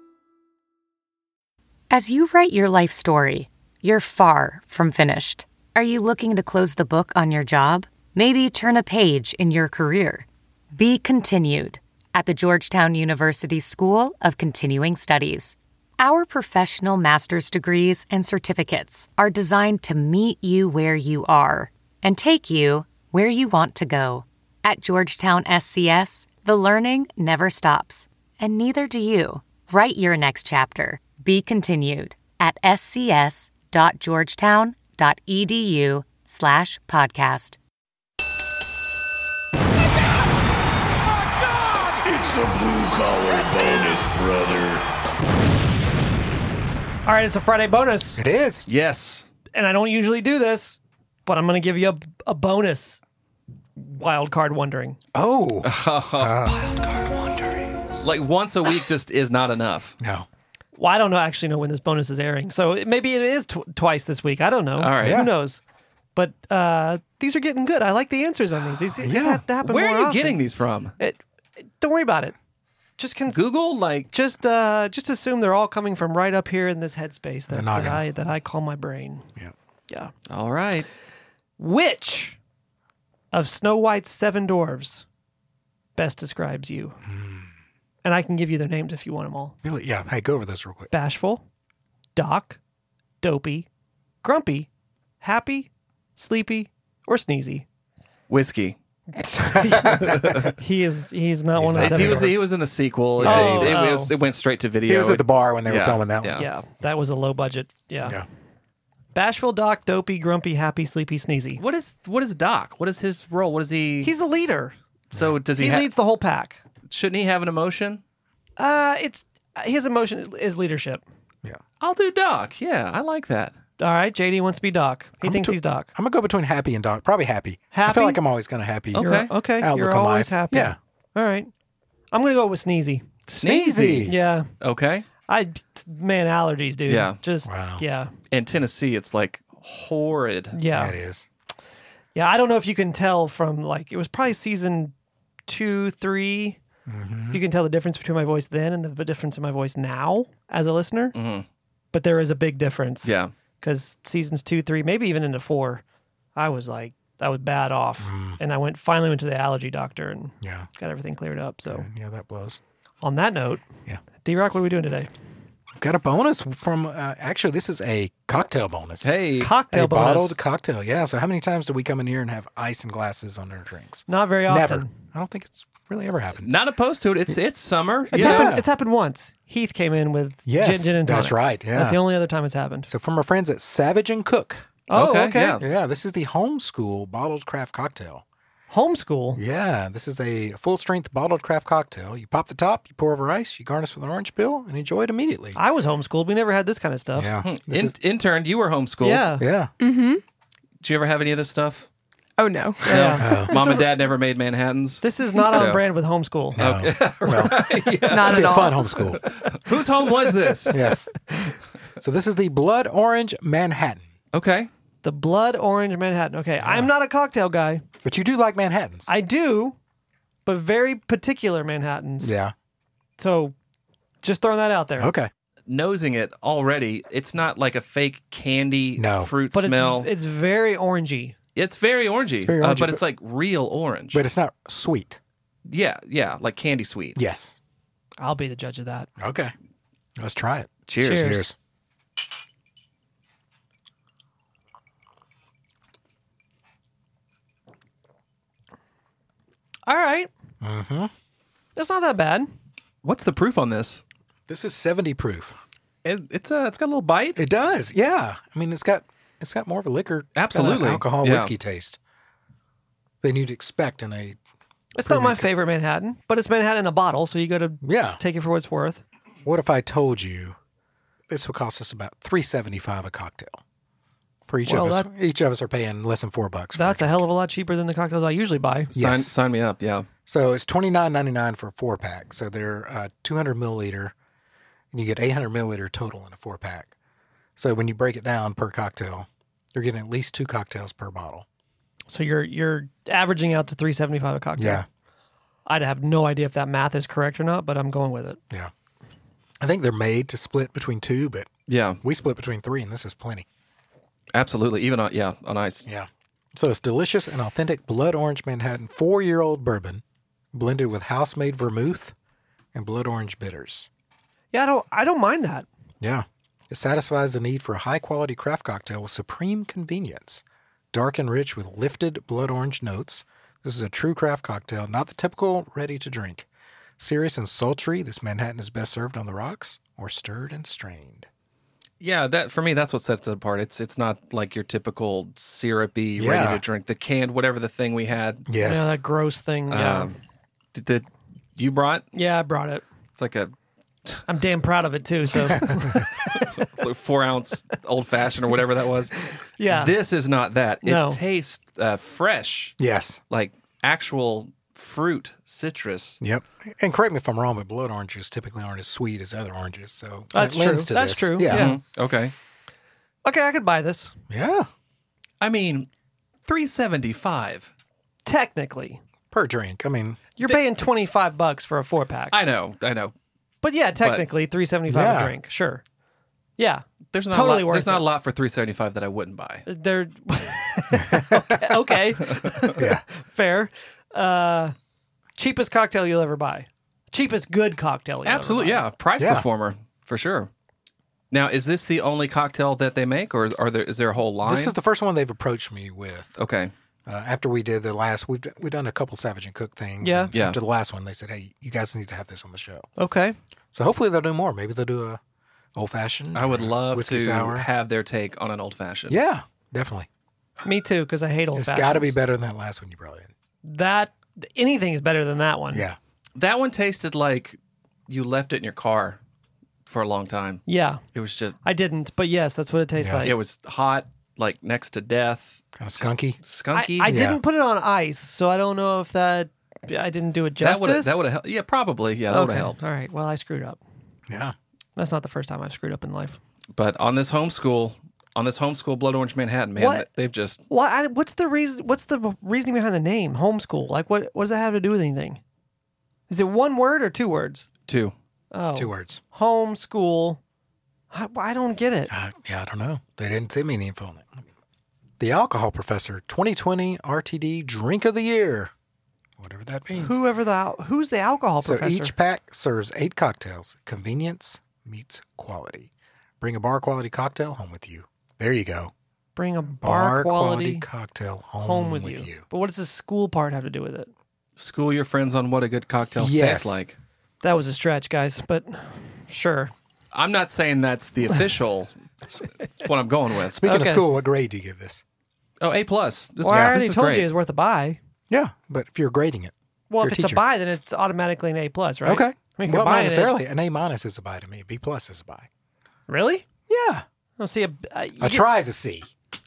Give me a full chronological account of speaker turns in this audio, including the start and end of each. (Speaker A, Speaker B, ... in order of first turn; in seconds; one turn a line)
Speaker A: 1.9-37.6
Speaker B: 42.1-44.8
Speaker C: 47.0-48.2
Speaker D: 48.1-48.7
Speaker E: 48.7-49.3
Speaker C: 49.5-53.0
Speaker C: 53.8-55.0
Speaker D: 55.1-57.6
Speaker E: 55.6-56.6
Speaker E: 58.0-59.9
Speaker D: 60.0-60.3
Speaker C: 60.7-65.6
Speaker E: 64.8-65.2
Speaker D: 65.0-65.3
Speaker C: 66.1-70.4
Speaker D: 69.0-69.4
Speaker E: 69.6-70.9
Speaker C: 71.0-72.3
Speaker C: 73.0-73.4
Speaker E: 73.3-74.1
Speaker C: 74.1-79.3
Speaker D: 77.5-78.0
Speaker E: 80.3-80.9
Speaker C: 81.6-82.4
Speaker C: 83.3-85.0
Speaker C: 85.9-87.0
Speaker D: 87.0-87.5
Speaker C: 88.0-89.5
Speaker D: 89.6-90.9
Speaker C: 90.9-91.4
Speaker C: 92.1-92.6
Speaker C: 93.2-93.7
Speaker C: 94.2-94.7
Speaker C: 95.2-97.7
Speaker E: 98.3-98.8
Speaker C: 99.1-102.4
Speaker E: 99.8-100.5
Speaker D: 101.5-102.4
Speaker E: 101.8-106.5
Speaker D: 103.2-103.9
Speaker C: 103.2-104.2
Speaker D: 104.9-106.4
Speaker C: 106.3-108.2
Speaker C: 109.1-111.6
Speaker E: 111.5-114.1
Speaker C: 114.0-114.8
Speaker E: 115.1-115.9
Speaker C: 115.5-116.6
Speaker E: 116.8-118.0
Speaker C: 118.6-121.0
Speaker E: 121.8-123.5
Speaker C: 123.8-125.9
Speaker D: 125.2-130.8
Speaker C: 127.7-128.2
Speaker C: 128.9-131.5
Speaker E: 128.9-129.3
Speaker C: 132.1-134.5
Speaker E: 133.3-135.1
Speaker D: 133.4-134.2
Speaker C: 135.2-138.1
Speaker E: 136.9-137.2
Speaker D: 137.4-137.8
Speaker E: 138.3-140.6
Speaker C: 140.5-141.0
Speaker D: 140.7-141.3
Speaker C: 142.1-144.9
Speaker C: 145.5-146.6
Speaker D: 146.9-147.4
Speaker C: 147.3-151.1
Speaker E: 151.1-151.4
Speaker C: 151.9-155.8
Speaker E: 153.0-153.3
Speaker C: 156.3-161.9
Speaker D: 158.0-158.4
Speaker D: 160.4-160.7
Speaker D: 161.7-162.6
Speaker C: 163.0-163.7
Speaker C: 164.2-165.1
Speaker D: 165.8-176.5
Speaker E: 169.0-169.5
Speaker C: 169.4-170.4
Speaker C: 174.1-174.9
Speaker E: 176.4-178.5
Speaker D: 178.1-178.7
Speaker C: 178.1-182.9
Speaker D: 180.4-182.1
Speaker D: 182.9-184.6
Speaker C: 184.9-185.6
Speaker E: 184.9-185.6
Speaker D: 185.6-188.2
Speaker C: 188.7-189.4
Speaker D: 189.3-195.6
Speaker C: 195.5-197.3
Speaker D: 197.1-197.9
Speaker E: 197.4-199.3
Speaker C: 199.0-199.4
Speaker D: 199.4-199.7
Speaker F: 199.8-200.2
Speaker E: 200.8-201.9
Speaker F: 202.4-203.8
Speaker C: 202.9-203.4
Speaker E: 202.9-205.8
Speaker D: 203.2-203.5
Speaker C: 205.0-206.6
Speaker E: 206.6-210.8
Speaker D: 206.6-209.2
Speaker F: 208.1-208.9
Speaker D: 210.7-211.1
Speaker D: 212.0-214.1
Speaker E: 214.3-214.7
Speaker C: 215.0-217.8
Speaker D: 216.6-216.9
Speaker D: 218.0-219.1
Speaker C: 219.1-219.8
Speaker C: 220.4-222.4
Speaker D: 222.2-222.5
Speaker C: 223.2-223.5
Speaker C: 224.2-225.1
Speaker D: 225.0-225.3
Speaker E: 225.7-230.1
Speaker D: 229.0-229.3
Speaker C: 229.5-231.3
Speaker E: 231.5-234.2
Speaker D: 232.4-233.0
Speaker D: 234.1-235.2
Speaker E: 235.7-237.2
Speaker D: 237.2-237.6
Speaker C: 238.2-239.1
Speaker D: 239.2-239.5
Speaker D: 240.2-241.5
Speaker E: 240.9-241.4
Speaker C: 241.0-241.5
Speaker C: 249.8-250.3
Speaker D: 250.6-251.1
Speaker C: 251.7-252.5
Speaker E: 253.0-254.0
Speaker D: 254.5-255.6
Speaker E: 256.0-257.4
Speaker D: 257.4-262.0
Speaker E: 260.3-261.5
Speaker D: 263.2-264.4
Speaker C: 264.9-269.0
Speaker D: 265.0-265.5
Speaker D: 267.8-268.2
Speaker D: 269.4-270.6
Speaker D: 271.3-273.6
Speaker D: 274.5-277.2
Speaker C: 274.6-275.1
Speaker C: 276.7-278.9
Speaker D: 278.9-279.3
Speaker E: 279.0-280.1
Speaker D: 280.2-284.1
Speaker D: 284.9-286.9
Speaker D: 287.6-291.4
Speaker C: 292.1-294.8
Speaker D: 294.6-294.9
Speaker C: 295.6-298.4
Speaker D: 299.6-301.5
Speaker E: 301.7-302.0
Speaker D: 302.0-303.4
Speaker E: 304.3-305.9
Speaker D: 305.9-312.1
Speaker D: 312.7-313.9
Speaker C: 314.5-315.7
Speaker D: 316.0-326.5
Speaker D: 327.0-331.3
Speaker E: 332.0-338.4
Speaker D: 336.2-336.6
Speaker D: 338.5-338.9
Speaker C: 338.6-340.1
Speaker E: 339.7-340.1
Speaker E: 340.7-342.1
Speaker C: 342.1-342.9
Speaker E: 343.1-343.5
Speaker C: 344.3-346.2
Speaker E: 346.1-352.8
Speaker C: 349.6-349.9
Speaker C: 350.8-351.2
Speaker D: 352.8-353.2
Speaker E: 353.3-356.2
Speaker D: 356.2-361.7
Speaker C: 360.3-361.8
Speaker E: 361.5-362.3
Speaker C: 363.2-364.1
Speaker D: 364.3-364.7
Speaker E: 365.4-365.9
Speaker E: 366.4-367.7
Speaker C: 368.2-369.0
Speaker D: 369.3-370.2
Speaker C: 370.4-372.4
Speaker E: 372.3-373.1
Speaker C: 373.6-375.8
Speaker E: 374.0-374.2
Speaker D: 374.9-375.4
Speaker C: 376.6-378.1
Speaker E: 377.1-379.6
Speaker C: 379.7-384.7
Speaker D: 381.1-381.8
Speaker E: 382.2-382.6
Speaker D: 382.8-383.0
Speaker C: 385.4-388.9
Speaker E: 388.2-390.5
Speaker D: 389.2-389.5
Speaker E: 391.3-394.7
Speaker D: 394.4-396.4
Speaker E: 396.4-396.7
Speaker D: 397.1-402.9
Speaker C: 400.0-400.3
Speaker E: 400.3-400.6
Speaker C: 402.9-403.4
Speaker D: 403.7-405.2
Speaker D: 405.7-407.7
Speaker E: 406.3-409.2
Speaker D: 409.1-410.1
Speaker C: 410.6-412.1
Speaker D: 411.5-413.3
Speaker C: 413.6-415.9
Speaker D: 415.7-416.0
Speaker E: 416.4-419.2
Speaker E: 419.9-420.6
Speaker C: 420.6-421.0
Speaker E: 421.1-421.6
Speaker C: 421.6-423.4
Speaker D: 423.0-423.3
Speaker E: 423.2-427.2
Speaker D: 425.8-426.4
Speaker C: 426.7-431.2
Speaker D: 427.1-427.4
Speaker E: 430.6-432.8
Speaker C: 432.3-433.8
Speaker D: 434.3-434.5
Speaker C: 434.9-436.4
Speaker E: 436.7-440.6
Speaker C: 439.8-440.1
Speaker C: 440.7-445.4
Speaker C: 446.3-447.6
Speaker E: 447.9-448.1
Speaker C: 448.5-450.4
Speaker D: 448.7-449.2
Speaker C: 451.1-452.1
Speaker D: 452.1-454.4
Speaker D: 455.2-458.7
Speaker D: 459.4-460.2
Speaker C: 459.9-462.1
Speaker D: 461.6-468.9
Speaker C: 469.3-470.8
Speaker D: 469.8-472.4
Speaker C: 471.6-474.1
Speaker E: 474.6-477.0
Speaker D: 476.1-476.8
Speaker C: 477.4-479.7
Speaker E: 480.1-481.9
Speaker E: 482.6-483.6
Speaker D: 483.5-485.0
Speaker C: 483.6-484.1
Speaker E: 485.6-487.3
Speaker C: 486.4-488.0
Speaker D: 486.5-486.8
Speaker D: 488.3-490.4
Speaker C: 489.9-493.4
Speaker D: 492.0-495.5
Speaker C: 496.1-496.4
Speaker D: 496.7-497.0
Speaker C: 497.4-498.4
Speaker D: 498.2-499.1